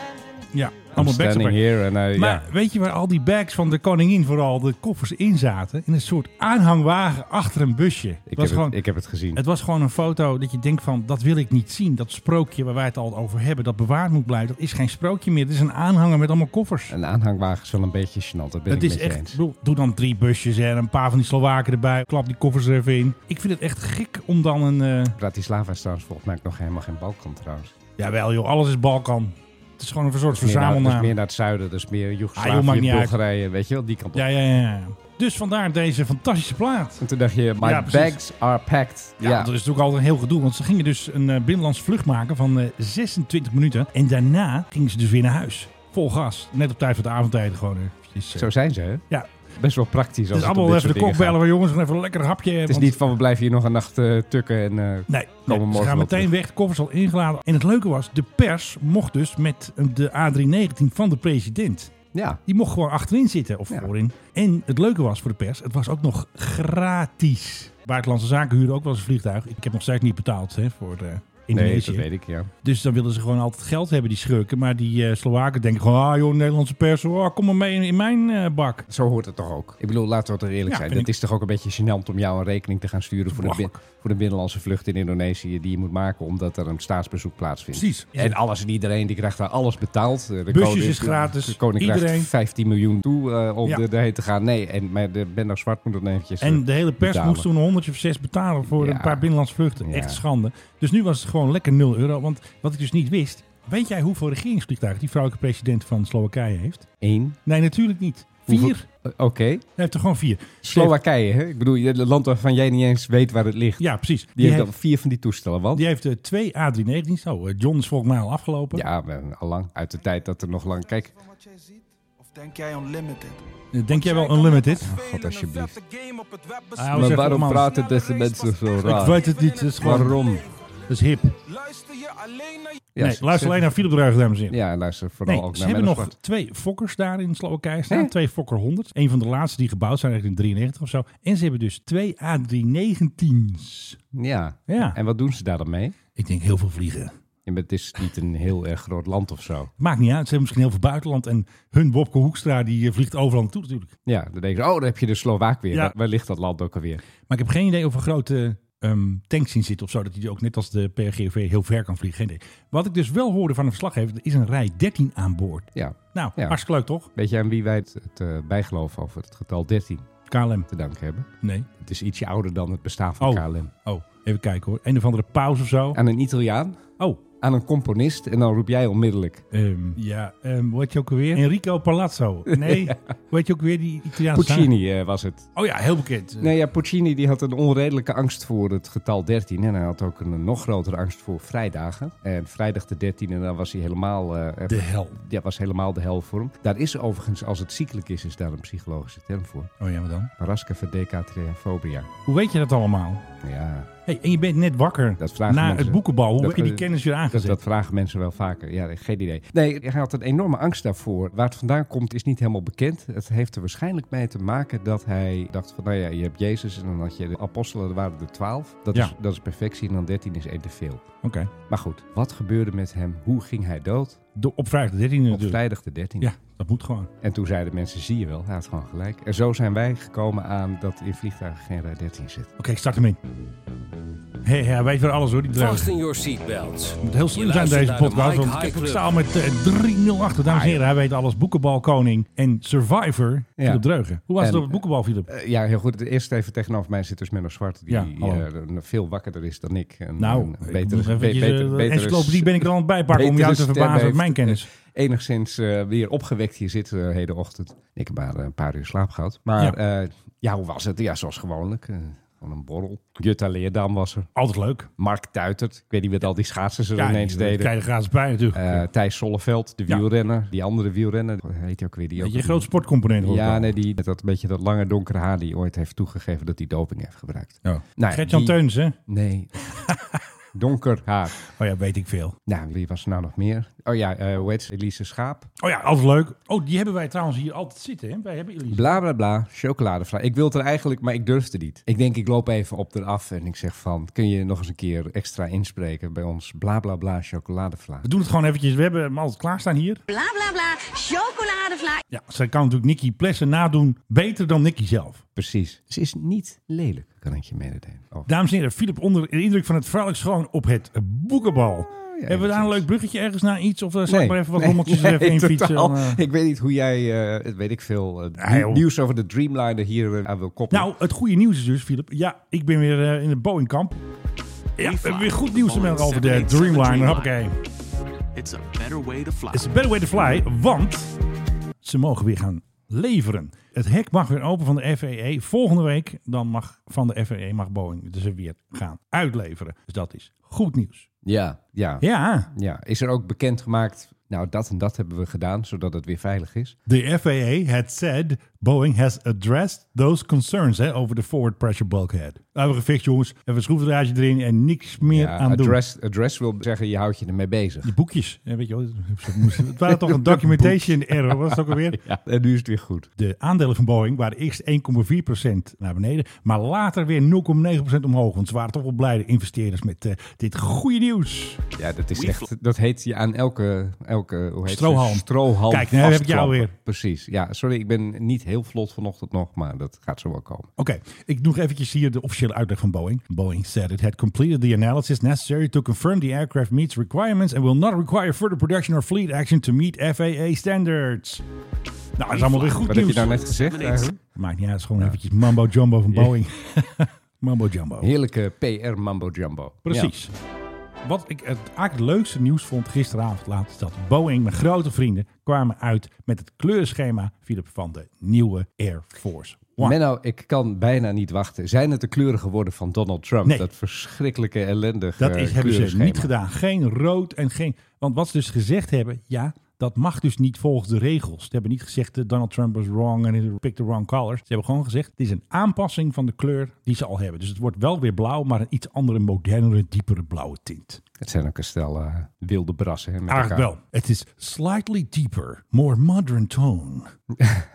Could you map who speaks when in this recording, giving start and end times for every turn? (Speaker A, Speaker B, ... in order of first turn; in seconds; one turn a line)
Speaker A: 0.5-8.8
Speaker B: 0.9-2.5
Speaker B: 8.3-9.4
Speaker A: 9.3-16.9
Speaker B: 16.9-19.4
Speaker A: 18.7-25.2
Speaker B: 25.2-27.7
Speaker A: 28.0-31.1
Speaker B: 30.3-34.3
Speaker A: 32.4-33.1
Speaker A: 34.1-37.0
Speaker B: 37.0-39.5
Speaker A: 37.6-38.2
Speaker A: 39.2-48.5
Speaker B: 48.3-49.0
Speaker B: 49.5-51.4
Speaker A: 50.3-53.0
Speaker B: 52.7-56.3
Speaker A: 55.1-61.9
Speaker B: 62.1-62.4
Speaker A: 62.5-72.0
Speaker B: 71.5-72.5
Speaker A: 72.6-78.9
Speaker B: 78.9-97.5
Speaker A: 80.7-81.1
Speaker A: 83.3-83.8
Speaker A: 87.7-88.4
Speaker A: 90.5-92.3
Speaker A: 96.4-106.9
Speaker B: 98.6-99.3
Speaker B: 99.8-100.2
Speaker B: 107.0-107.4
Speaker A: 107.5-108.9
Speaker B: 108.5-109.6
Speaker A: 109.8-111.0
Speaker B: 110.6-115.8
Speaker A: 113.8-114.7
Speaker A: 115.7-118.8
Speaker B: 118.7-121.1
Speaker C: 121.5-128.8
Speaker A: 123.7-124.9
Speaker B: 124.8-125.8
Speaker A: 126.8-127.7
Speaker B: 126.9-130.5
Speaker A: 128.8-130.2
Speaker C: 129.3-129.8
Speaker A: 130.9-131.3
Speaker C: 131.4-132.8
Speaker B: 132.9-133.7
Speaker A: 133.0-134.6
Speaker B: 134.5-136.1
Speaker A: 135.2-144.0
Speaker B: 144.1-146.0
Speaker A: 144.7-145.0
Speaker A: 146.2-147.1
Speaker B: 147.4-149.7
Speaker A: 149.8-153.9
Speaker B: 154.1-157.0
Speaker A: 157.3-167.1
Speaker B: 165.7-166.6
Speaker B: 167.1-170.1
Speaker A: 170.3-170.7
Speaker B: 170.7-173.7
Speaker A: 171.4-171.7
Speaker A: 173.2-176.0
Speaker B: 175.9-176.8
Speaker B: 177.4-179.4
Speaker A: 179.5-184.7
Speaker B: 182.5-183.0
Speaker B: 184.3-185.5
Speaker A: 185.6-186.5
Speaker B: 186.4-199.7
Speaker A: 194.7-195.2
Speaker A: 199.8-200.3
Speaker B: 200.4-202.1
Speaker A: 202.2-203.2
Speaker B: 203.4-203.9
Speaker A: 204.1-207.6
Speaker B: 205.2-221.1
Speaker A: 221.2-221.5
Speaker B: 221.7-224.2
Speaker A: 224.3-225.6
Speaker B: 225.3-226.3
Speaker A: 226.2-227.1
Speaker B: 227.2-232.5
Speaker A: 232.6-233.2
Speaker A: 234.4-236.0
Speaker D: 235.5-239.1
Speaker A: 237.0-245.3
Speaker B: 240.4-240.9
Speaker B: 243.6-243.8
Speaker B: 244.4-264.3
Speaker A: 247.9-248.4
Speaker A: 250.2-254.7
Speaker A: 264.3-264.9
Speaker B: 265.0-267.7
Speaker A: 267.0-268.9
Speaker B: 268.5-279.5
Speaker A: 272.2-273.8
Speaker A: 277.6-278.9
Speaker A: 279.9-280.1
Speaker B: 280.5-281.4
Speaker A: 281.4-282.4
Speaker B: 282.5-285.5
Speaker A: 285.6-288.9
Speaker B: 288.7-298.1
Speaker A: 298.0-300.0
Speaker E: 300.1-302.0
Speaker A: 302.1-305.2
Speaker B: 305.4-308.3
Speaker A: 308.2-316.2
Speaker B: 311.9-312.9
Speaker B: 314.1-320.9
Speaker A: 318.4-318.8
Speaker A: 320.7-324.0
Speaker A: 324.8-327.5
Speaker D: 324.8-327.4
Speaker D: 328.3-329.7
Speaker A: 329.5-331.1
Speaker A: 331.8-341.1
Speaker B: 341.2-346.8
Speaker A: 342.0-342.5
Speaker A: 346.9-355.8
Speaker B: 355.1-357.9
Speaker A: 357.8-362.0
Speaker B: 359.2-363.1
Speaker A: 363.2-371.6
Speaker B: 371.8-380.7
Speaker D: 372.1-372.5
Speaker A: 374.6-376.7
Speaker A: 380.8-391.4
Speaker A: 392.2-393.4
Speaker B: 392.3-394.2
Speaker D: 392.4-392.8
Speaker D: 393.5-394.1
Speaker A: 394.4-398.1
Speaker B: 396.1-396.4
Speaker B: 398.0-400.1
Speaker A: 399.8-400.3
Speaker A: 401.0-410.0
Speaker B: 409.8-416.3
Speaker A: 415.2-431.0
Speaker B: 431.2-433.7
Speaker A: 433.3-437.1
Speaker B: 437.3-437.7